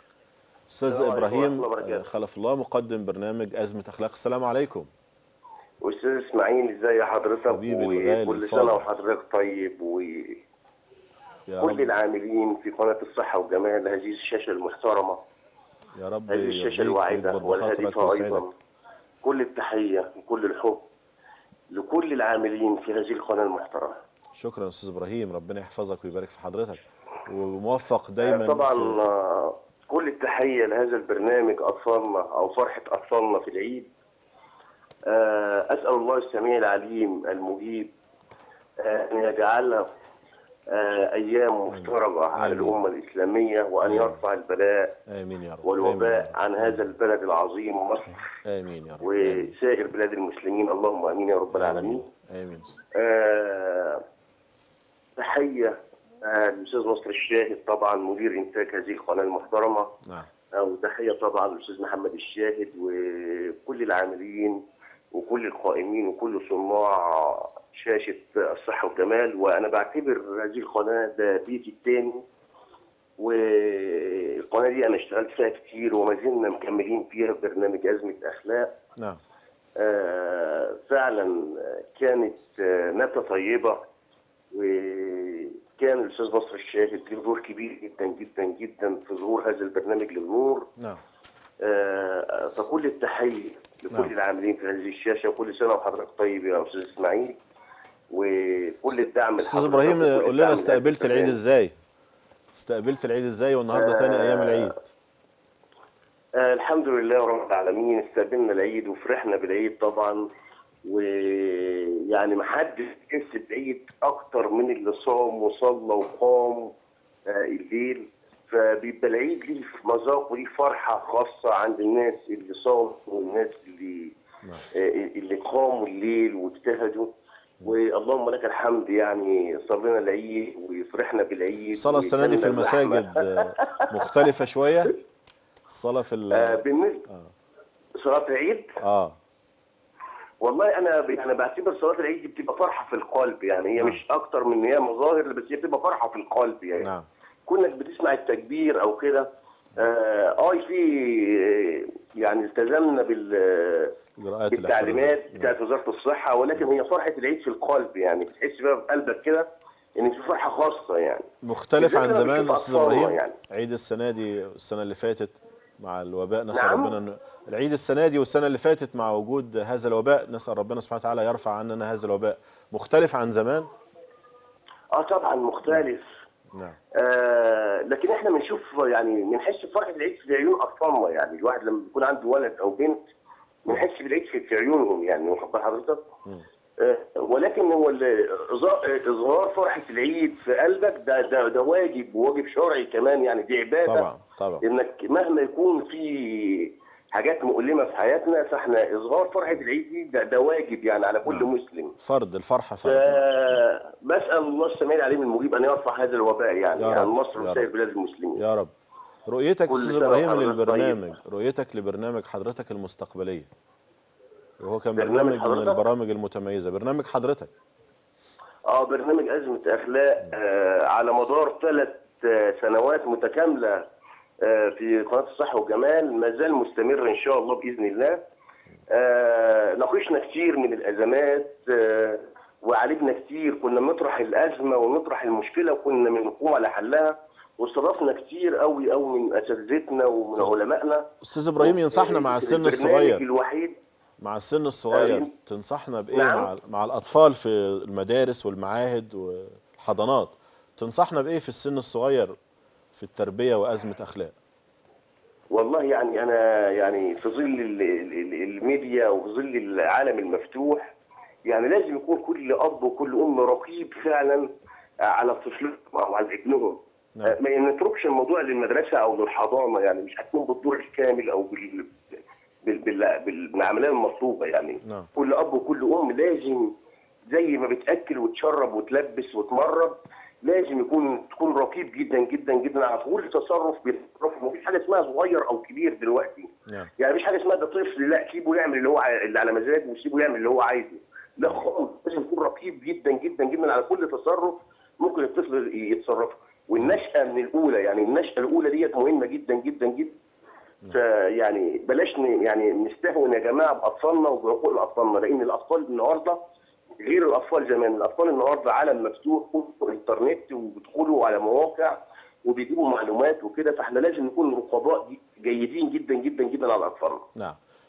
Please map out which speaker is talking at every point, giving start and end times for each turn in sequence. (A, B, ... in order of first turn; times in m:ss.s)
0:00.7-0:04.9 A
0:00.9-0:02.1 B
0:05.8-0:10.4 B
0:07.5-0:08.8 A
0:11.5-0:11.9 A
0:11.6-0:15.2 B
0:16.0-0:18.4 A
0:16.3-0:18.5 B
0:19.2-0:20.8 B
0:21.7-0:24.0 B
0:24.4-0:29.0 A
0:28.2-0:33.9 B
0:35.1-0:37.9 B
0:38.8-0:39.9 B
0:40.7-0:45.0 B
0:41.7-0:42.8 A
0:43.8-0:44.2 A
0:45.1-0:46.9 A
0:45.6-0:48.3 B
0:48.4-0:49.5 A
0:49.0-0:52.1 B
0:51.5-0:52.8 A
0:52.9-0:54.0 B
0:55.2-0:59.9 B
1:00.5-1:04.6 B
1:05.1-1:12.2 B
1:13.2-1:18.7 B
1:19.8-1:23.8 B
1:24.5-1:30.7 B
1:31.6-1:37.4 B
1:38.1-1:41.4 B
1:39.4-1:41.7 A
1:42.5-1:44.8 A
1:43.7-1:44.7 B
1:46.4-1:50.3 B
1:50.8-1:56.7 B
1:57.3-2:04.1 B
2:04.7-2:07.1 B
2:07.6-2:13.8 B
2:11.7-2:15.0 A
2:15.7-2:17.3 A
2:16.3-2:17.1 B
2:18.0-2:18.8 B
2:18.8-2:19.2 A
2:20.4-2:26.9 B
2:26.8-2:27.1 A
2:27.5-2:34.0 B
2:34.2-2:35.5 A
2:34.5-2:43.4 B
2:41.4-2:53.7 A
2:46.5-2:47.0 B
2:54.9-2:56.1 B
2:56.5-2:56.8 A
2:57.0-3:03.0 B
3:03.6-3:06.0 B
3:06.8-3:14.1 B
3:13.9-3:14.6 A
3:14.6-3:22.0 B
3:21.2-3:23.6 A
3:22.8-3:28.4 B
3:26.8-3:27.7 A
3:28.4-3:28.7 A
3:29.3-3:33.5 A
3:29.7-3:31.0 B
3:34.6-3:37.5 A
3:35.0-3:35.8 B
3:38.7-3:43.9 B
3:44.4-3:48.2 B
3:48.9-4:03.8 B
4:01.2-4:03.2 A
4:04.2-4:12.3 A
4:04.9-4:05.3 B
4:06.1-4:06.5 B
4:12.9-4:14.4 A
4:15.5-4:20.9 B
4:21.4-4:24.5 B
4:25.0-4:31.9 B
4:32.6-4:36.7 B
4:37.3-5:00.1 B
5:00.9-5:06.4 B
5:07.0-5:17.2 B